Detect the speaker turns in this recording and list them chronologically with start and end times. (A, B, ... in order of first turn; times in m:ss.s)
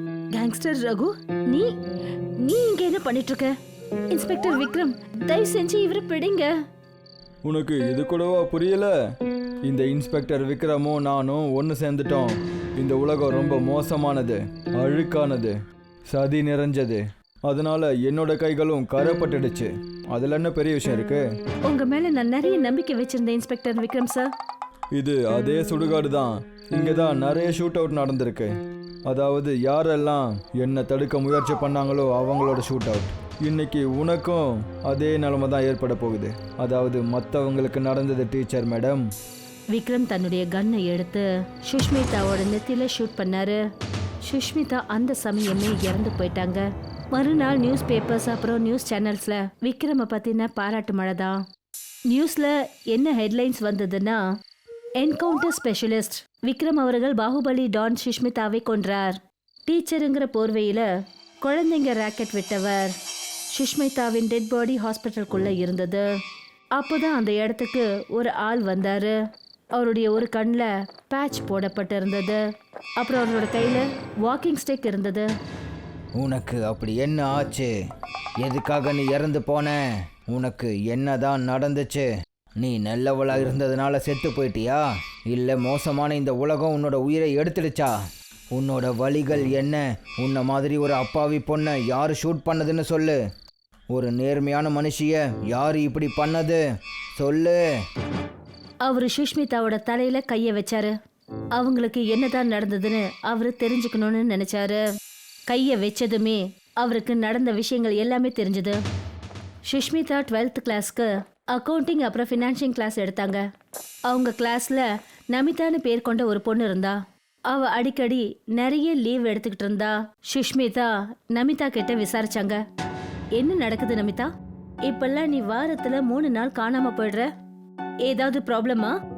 0:00.3-0:01.7 A
0:02.4-0:03.5 A
0:04.1-0:06.5 A
0:07.4-0:08.9 B
0:09.6-0:15.6 B
0:16.1-0:21.2 B
0:21.7-0:24.3 A
0:24.9-0:28.5 B
0:29.1-0:39.1 B
0:39.7-0:43.6 A
0:44.2-0:51.4 A
0:52.1-0:54.2 A
0:55.0-1:00.9 A
1:01.4-1:02.9 A
1:03.5-1:06.0 A
1:06.8-1:09.2 A
1:09.8-1:12.4 A
1:13.0-1:15.3 A
1:16.2-1:17.7 C
1:18.4-1:19.8 C
1:20.3-1:22.1 C
1:22.6-1:27.9 C
1:28.5-1:33.2 C
1:33.9-1:36.6 C
1:34.0-1:34.7 B
1:37.2-1:37.6 C
1:38.8-1:40.9 A
1:41.6-1:44.8 A
1:45.5-1:48.8 A
1:49.7-1:53.4 A
1:54.1-1:57.0 A
1:57.5-2:02.6 A
2:03.3-2:04.3 A
2:04.8-2:07.3 A
2:08.0-2:08.9 A